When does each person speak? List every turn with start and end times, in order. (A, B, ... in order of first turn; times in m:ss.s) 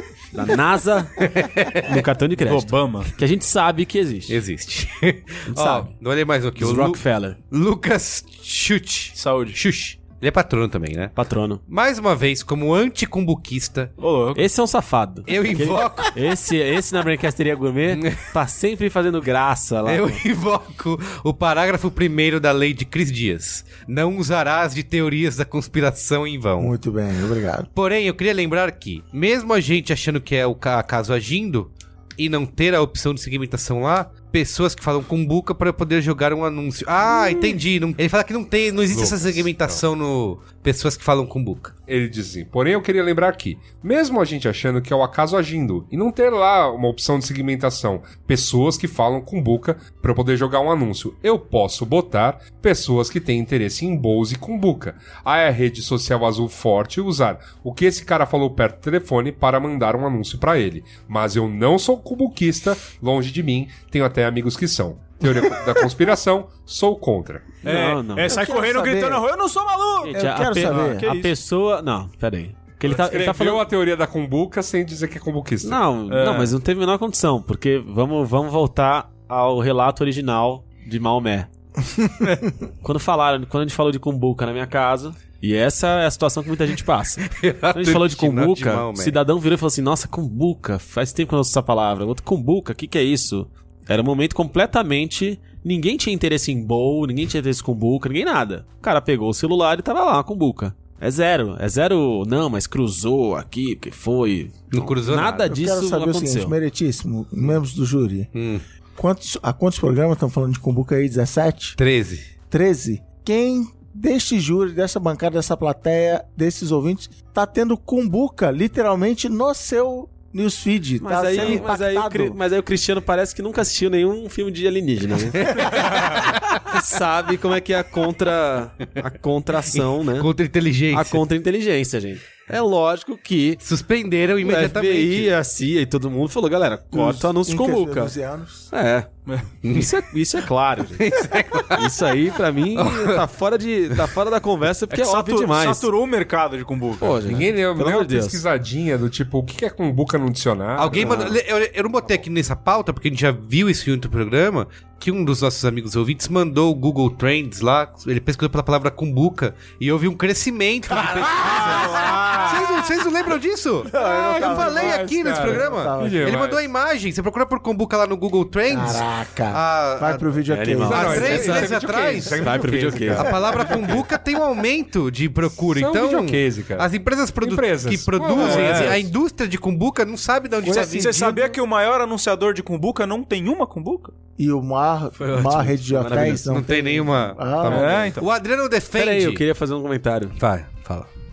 0:00.3-0:01.2 A
0:01.2-0:02.0 B
0:01.8-0:04.4 A
0:02.4-0:03.1 C
0:04.3-0:11.2 B
0:05.5-0:05.9 A
0:06.6-0:07.4 A
0:09.2-0:09.6 C
0:11.2-0:11.6 A
0:11.7-0:13.9 B
0:14.0-0:14.5 C
0:14.3-0:20.2 A
0:15.3-0:16.2 B
0:17.9-0:18.3 B
0:19.8-0:26.8 B
0:26.6-0:27.7 D
0:27.7-0:41.7 B
0:38.9-0:39.8 E
0:41.9-1:07.6 E
1:07.6-1:08.4 A
1:07.6-1:11.3 C
1:08.2-1:09.2 D
1:10.0-1:13.6 A
1:10.1-1:11.1 D
1:12.8-1:15.8 E
1:15.6-1:21.5 A
1:16.1-1:16.6 C
1:22.8-1:46.6 A
1:27.2-1:29.2 B
1:44.7-1:45.5 B
1:45.4-1:48.3 D
1:48.3-1:48.6 B
1:49.0-1:51.8 D
1:51.8-1:52.3 B
1:52.5-2:02.4 D
2:01.0-2:10.3 A
2:09.7-2:11.2 B
2:10.9-2:13.6 A
2:13.6-2:15.3 B
2:14.4-2:18.1 A
2:16.9-2:18.7 D
2:18.7-2:19.1 A
2:19.6-2:19.9 B
2:19.6-2:21.1 A
2:21.0-2:21.9 B
2:21.7-2:25.9 A
2:22.7-2:23.2 B
2:24.9-2:27.3 C
2:27.0-2:28.4 A
2:27.2-2:31.4 E
2:30.8-2:52.6 B
2:31.0-2:31.3 A
2:41.0-2:42.6 D
2:41.4-2:42.4 E
2:43.9-2:46.4 D
2:44.0-2:46.6 E
2:48.7-2:51.5 D
2:50.5-2:51.8 A
2:50.8-2:54.0 E
2:52.3-2:53.3 A
2:53.1-3:01.5 B
2:55.7-2:56.9 E
2:57.4-2:59.0 E
2:58.3-2:59.0 C
3:00.6-3:01.4 D
3:00.7-3:04.1 C
3:04.4-3:08.0 D
3:05.2-3:06.5 A
3:06.4-3:09.4 B
3:07.7-3:08.2 C
3:08.9-3:10.4 A
3:10.4-3:11.1 B